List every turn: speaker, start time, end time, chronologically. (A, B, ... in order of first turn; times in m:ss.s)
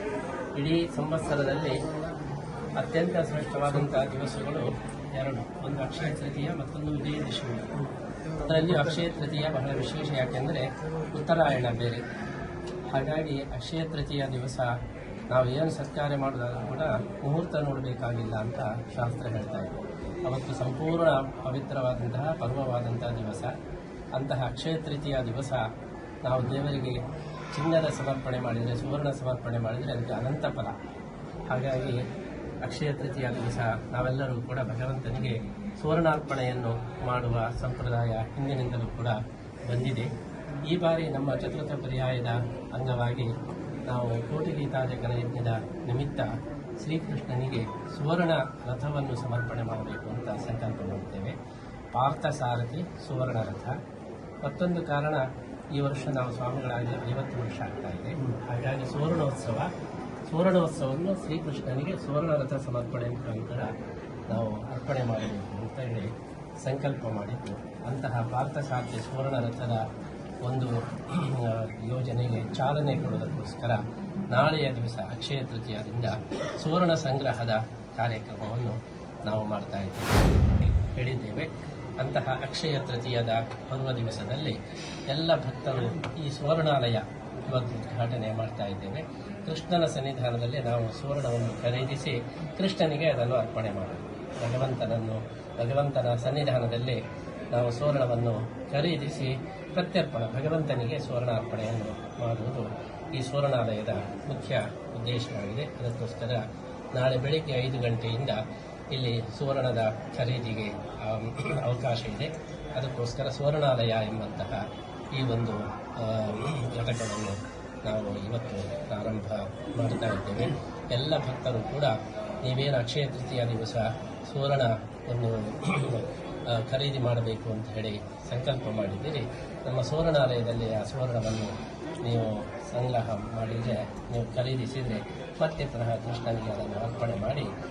0:00.5-0:01.8 A
0:02.8-0:12.0 A
0:12.9-0:14.8 A
0:15.3-0:23.5 A
0:24.1-0:25.6 A
0:26.2-0:27.0 A
0:27.5-0:30.7 A
0:31.5-0:32.0 A
0:32.6-0:40.1 A
0:40.7-0:43.3 A
0:43.9-0:46.3 A
0:46.8-0:51.4 A
0:51.9-0:53.8 A
0:54.4-0:59.7 A
1:00.3-1:03.7 A
1:04.3-1:09.8 A
1:10.4-2:17.5 A